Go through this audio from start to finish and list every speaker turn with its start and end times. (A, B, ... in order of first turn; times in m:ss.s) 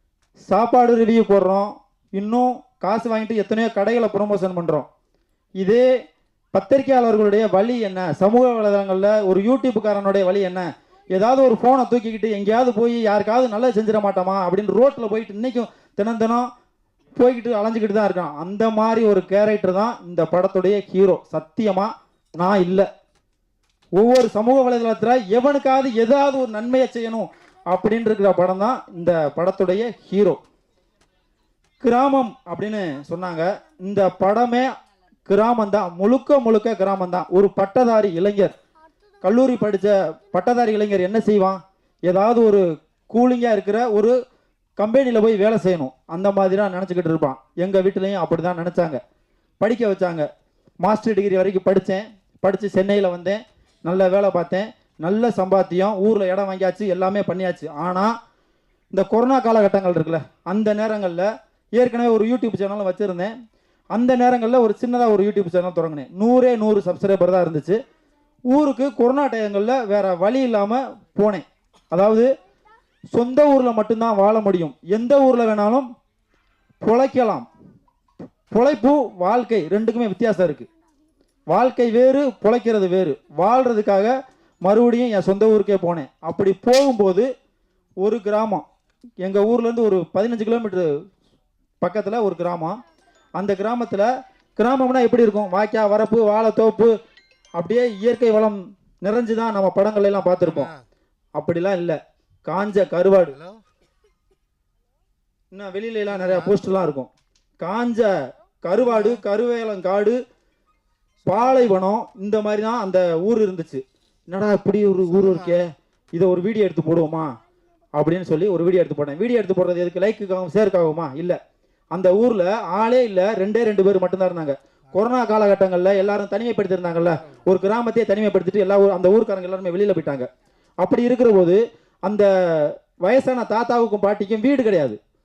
0:00.5-0:04.9 A
0:05.6-0:05.9 A
0:06.5-0:16.5 A
0:17.2-0:22.9 A
0:24.0-0:30.4 A
0:31.8-0:34.7 A
0:35.3-0:38.5 A
0:39.2-0:44.2 A
0:44.8-0:49.0 A
0:49.6-0:50.3 A
0:50.8-0:58.1 A
0:58.9-1:03.3 A
1:03.9-1:07.8 A
1:08.5-1:12.3 A
1:13.1-1:15.9 A
1:16.8-1:17.5 A
1:18.5-1:20.7 A
1:21.5-1:27.3 A
1:28.0-1:28.6 A
1:29.2-1:30.9 A
1:31.8-1:32.8 A
1:33.4-1:37.0 A
1:37.6-1:40.7 A
1:41.4-1:43.4 A
1:45.5-1:47.1 A
1:47.6-1:50.2 A
1:51.2-1:57.4 A
1:58.0-2:01.4 A
2:01.9-2:10.3 A
2:10.8-2:15.0 A